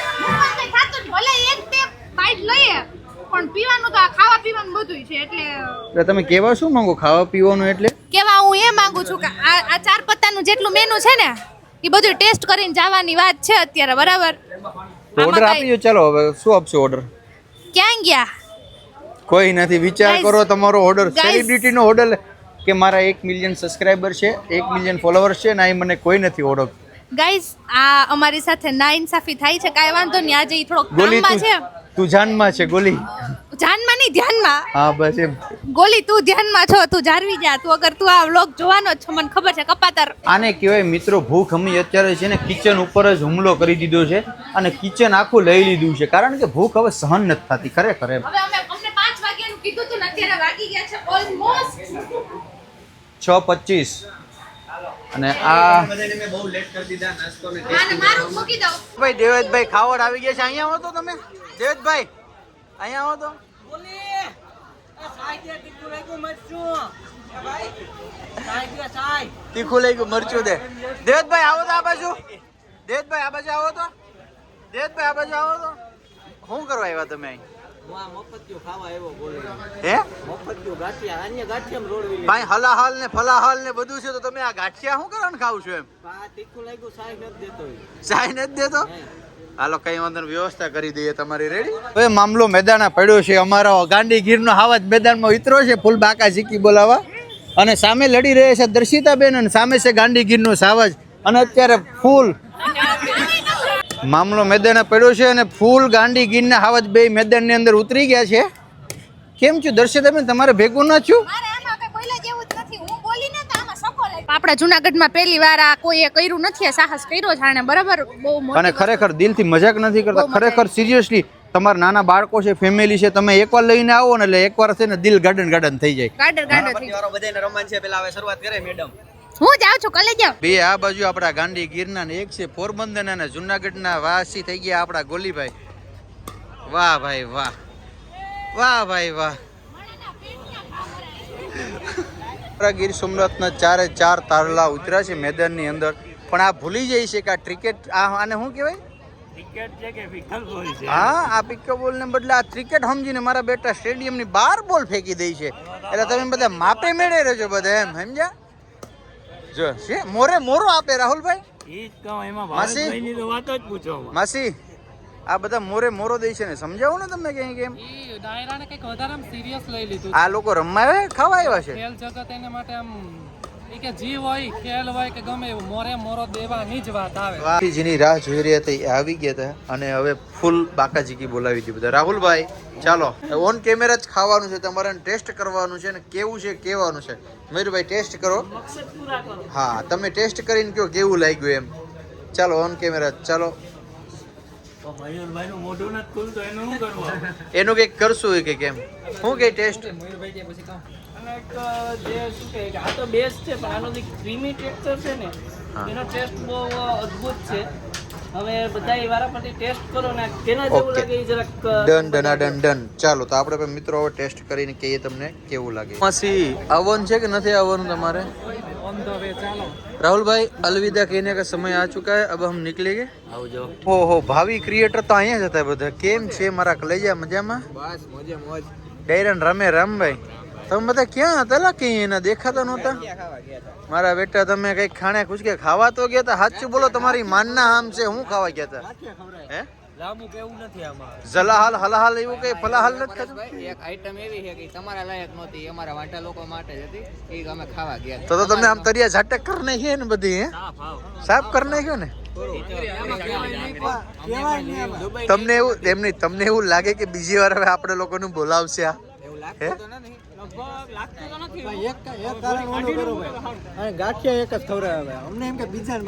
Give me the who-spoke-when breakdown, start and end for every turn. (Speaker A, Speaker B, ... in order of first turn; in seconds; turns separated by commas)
Speaker A: 0.2-5.9, Speaker B: 5.9-7.9, Speaker A: 8.1-14.4, Speaker B: 15.2-17.0, Speaker A: 15.2-15.7, Speaker A: 17.7-18.3, Speaker B: 19.3-26.7, Speaker A: 20.0-20.4, Speaker A: 21.1-21.7, Speaker A: 27.1-31.6, Speaker B: 30.9-33.0, Speaker A: 33.3-34.6, Speaker B: 34.7-35.4, Speaker A: 35.7-40.1, Speaker B: 40.3-48.2, Speaker A: 48.2-52.3, Speaker B: 53.2-54.0, Speaker B: 55.1-55.9, Speaker C: 55.4-58.4, Speaker A: 57.6-58.8, Speaker B: 59.0-62.1, Speaker B: 62.8-63.4, Speaker D: 63.7-64.3, Speaker D: 65.0-66.9, Speaker D: 68.5-69.3, Speaker B: 69.5-72.2, Speaker B: 72.9-73.9, Speaker B: 74.7-75.8, Speaker B: 76.4-77.4, Speaker D: 77.9-79.4, Speaker E: 78.0-79.6, Speaker B: 79.8-80.1, Speaker D: 80.3-82.2, Speaker E: 80.4-82.2, Speaker B: 82.2-85.9, Speaker D: 86.0-87.8, Speaker E: 86.4-87.8, Speaker B: 88.0-88.9, Speaker B: 89.6-97.0, Speaker B: 97.6-102.3, Speaker A: 102.6-103.7, Speaker B: 104.0-108.5, Speaker B: 109.4-111.2, Speaker A: 111.2-119.0, Speaker B: 118.5-126.6, Speaker A: 120.1-120.7, Speaker A: 126.2-127.0, Speaker C: 126.5-128.9, Speaker A: 129.4-130.4, Speaker B: 130.4-135.5, Speaker B: 136.7-137.5, Speaker B: 138.5-139.4, Speaker A: 139.8-141.3, Speaker B: 142.6-148.8, Speaker D: 149.3-151.1, Speaker B: 150.9-158.3, Speaker D: 155.7-156.9, Speaker B: 159.5-161.4, Speaker D: 161.7-164.2, Speaker B: 162.5-163.0, Speaker B: 164.1-164.5, Speaker B: 165.3-167.8, Speaker F: 167.9-170.0, Speaker D: 168.7-169.2, Speaker D: 169.8-170.1, Speaker B: 170.1-171.8, Speaker F: 171.6-173.2, Speaker F: 173.7-177.4, Speaker B: 177.4-188.5, Speaker G: 188.6-189.3, Speaker B: 189.5-191.7, Speaker B: 192.3-193.6, Speaker D: 194.8-197.3, Speaker B: 197.5-199.9, Speaker G: 201.2-205.3, Speaker G: 205.9-207.6, Speaker G: 208.3-211.5, Speaker B: 210.7-211.1, Speaker B: 211.7-218.3, Speaker D: 218.9-219.7, Speaker B: 220.0-223.1, Speaker D: 223.3-223.8, Speaker B: 223.8-227.6, Speaker E: 227.7-228.7, Speaker B: 229.1-233.0, Speaker E: 232.5-233.8, Speaker B: 233.9-238.9, Speaker E: 236.5-239.4, Speaker D: 240.0-241.1, Speaker E: 240.1-241.0, Speaker B: 241.2-243.7, Speaker E: 242.3-248.9, Speaker B: 248.3-250.6, Speaker E: 250.6-255.9, Speaker B: 251.2-252.1, Speaker B: 255.2-259.0, Speaker E: 259.2-264.7, Speaker D: 262.5-263.0